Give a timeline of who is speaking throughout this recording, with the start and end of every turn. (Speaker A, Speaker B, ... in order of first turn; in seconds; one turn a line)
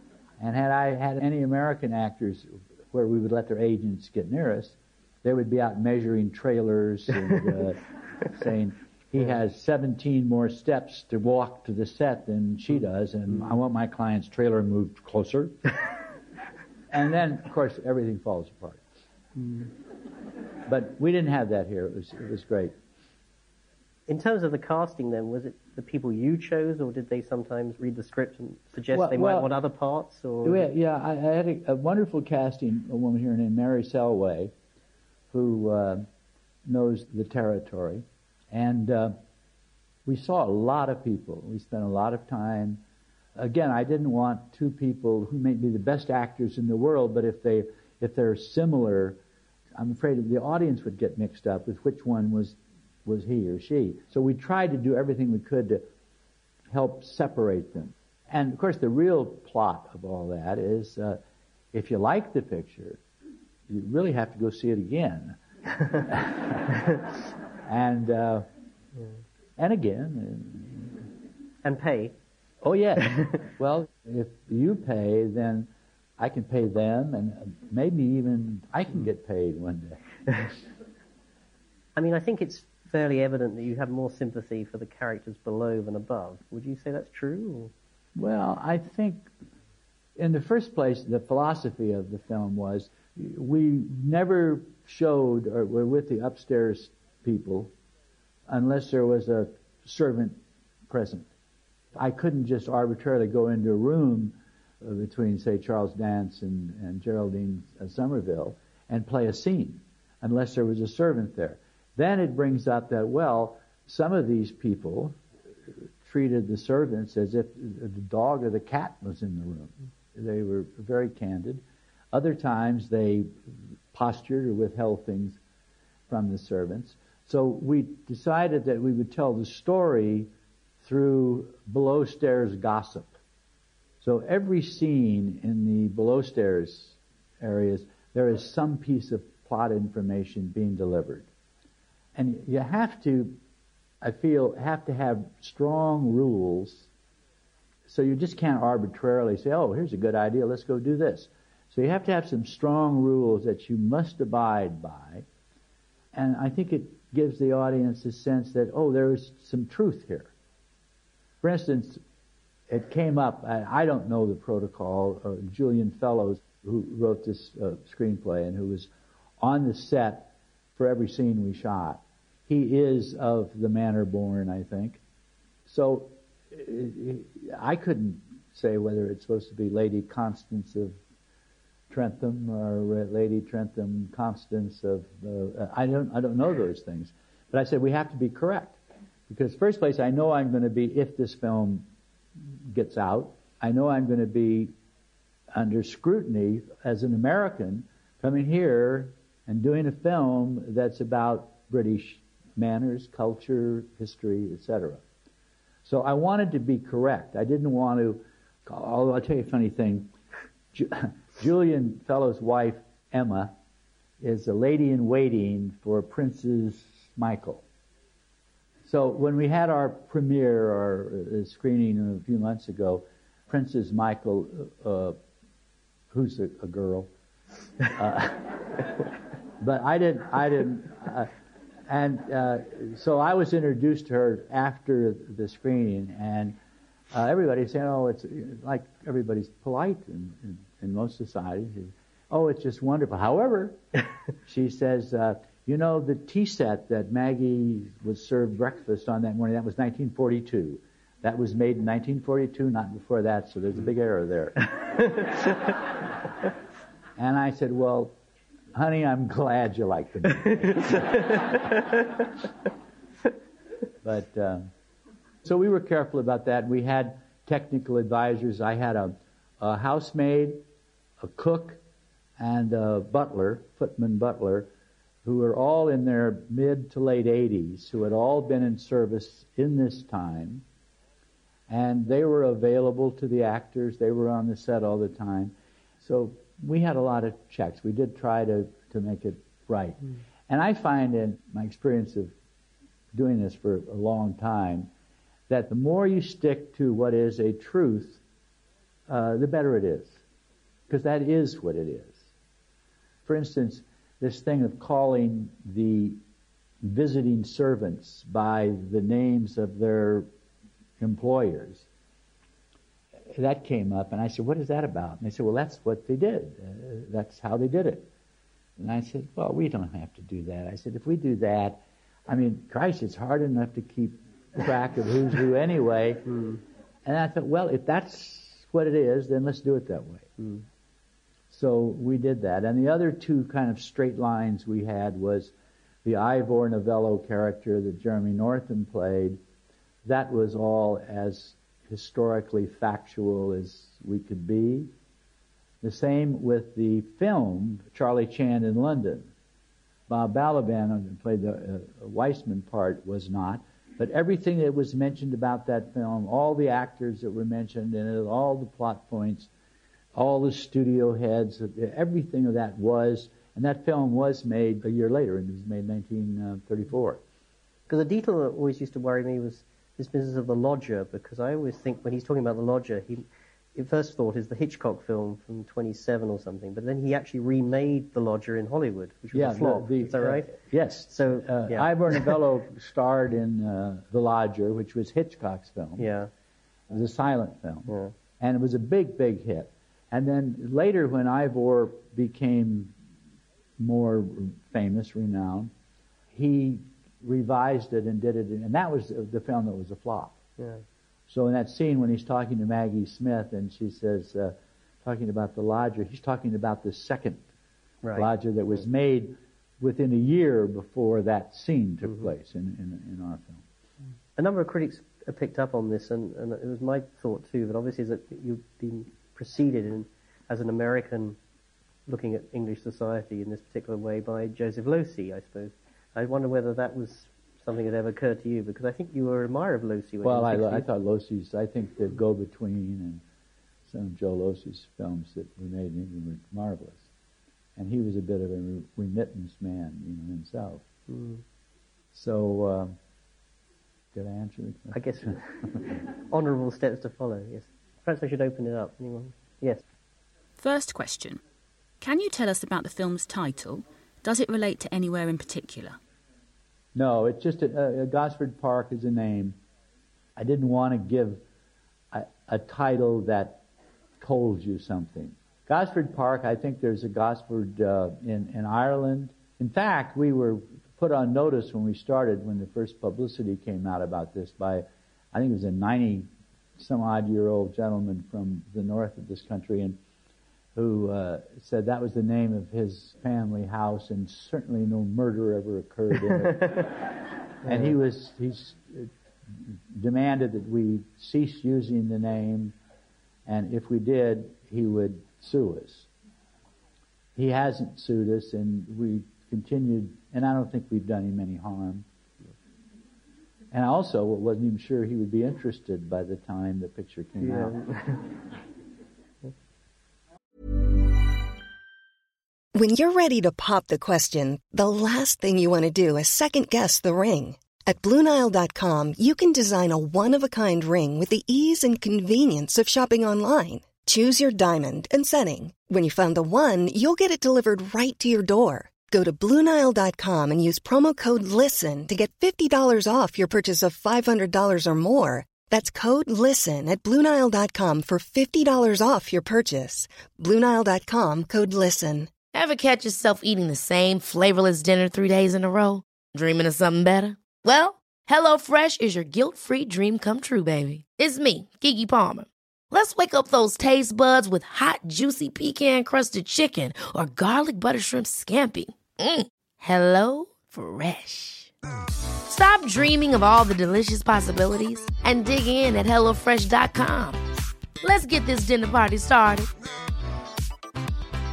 Speaker A: 0.4-15.8
Speaker A: 16.9-18.8
Speaker A: 20.7-22.7
Speaker B: 24.1-30.7
Speaker A: 28.9-29.5
Speaker A: 30.4-34.5
Speaker A: 35.3-36.1
Speaker A: 36.7-39.2
Speaker A: 40.0-42.8
Speaker A: 43.4-49.2
Speaker A: 49.8-55.9
Speaker A: 56.7-61.2
Speaker A: 61.7-63.0
Speaker A: 63.7-66.8
Speaker A: 67.7-68.5
Speaker A: 69.6-71.0
Speaker B: 71.6-72.2
Speaker A: 72.6-80.0
Speaker B: 82.0-87.7
Speaker A: 88.2-89.3
Speaker A: 90.2-97.7
Speaker A: 98.5-101.3
Speaker A: 102.0-115.2
Speaker A: 116.0-125.4
Speaker A: 126.1-130.3
Speaker A: 130.8-133.1
Speaker A: 134.0-141.3
Speaker A: 142.2-143.4
Speaker A: 144.0-146.9
Speaker A: 147.9-155.3
Speaker A: 156.1-160.3
Speaker A: 161.4-162.0
Speaker A: 162.7-175.0
Speaker A: 175.7-181.0
Speaker A: 181.9-191.8
Speaker A: 192.5-194.8
Speaker A: 195.5-205.0
Speaker A: 205.8-210.1
Speaker A: 210.7-213.6
Speaker A: 214.2-217.6
Speaker A: 218.9-225.2
Speaker A: 226.1-227.1
Speaker A: 227.9-228.9
Speaker A: 229.6-231.3
Speaker A: 231.9-236.6
Speaker A: 237.1-243.8
Speaker A: 244.4-254.7
Speaker A: 257.2-258.2
Speaker A: 258.7-261.6
Speaker A: 264.0-264.7
Speaker A: 265.4-270.6
Speaker A: 271.2-271.8
Speaker A: 272.4-274.7
Speaker A: 275.2-280.6
Speaker A: 281.7-292.3
Speaker A: 293.1-294.9
Speaker A: 295.5-298.2
Speaker A: 299.1-300.2
Speaker A: 300.9-302.2
Speaker A: 303.2-306.2
Speaker A: 306.8-310.3
Speaker A: 311.0-311.9
Speaker A: 313.3-318.1
Speaker A: 318.8-326.4
Speaker B: 326.3-326.6
Speaker A: 327.1-330.3
Speaker A: 331.5-335.5
Speaker A: 336.0-339.4
Speaker A: 340.0-344.9
Speaker A: 345.8-349.3
Speaker A: 350.1-359.5
Speaker A: 360.1-367.2
Speaker B: 367.9-380.6
Speaker A: 379.3-386.1
Speaker B: 381.1-382.4
Speaker B: 386.0-386.3
Speaker A: 386.9-392.9
Speaker B: 387.9-388.1
Speaker A: 393.8-395.7
Speaker A: 396.3-400.4
Speaker B: 400.6-400.8
Speaker A: 401.3-407.4
Speaker B: 408.0-408.3
Speaker A: 408.1-413.6
Speaker B: 414.4-421.4
Speaker B: 422.1-430.9
Speaker A: 430.2-433.2
Speaker A: 433.9-437.1
Speaker A: 437.8-440.8
Speaker B: 441.1-441.4
Speaker A: 442.1-443.0
Speaker A: 444.1-445.8
Speaker B: 444.9-449.8
Speaker C: 450.6-451.4
Speaker C: 452.0-456.0
Speaker A: 456.9-459.6
Speaker A: 460.4-461.4
Speaker A: 462.1-463.6
Speaker A: 464.2-480.0
Speaker A: 480.8-486.9
Speaker A: 487.6-492.8
Speaker B: 487.6-487.9
Speaker A: 493.5-496.1
Speaker A: 497.4-502.1
Speaker A: 503.7-507.8
Speaker B: 507.4-508.3
Speaker D: 512.7-542.3
Speaker E: 542.5-561.7
Speaker E: 562.5-567.4
Speaker E: 568.0-569.7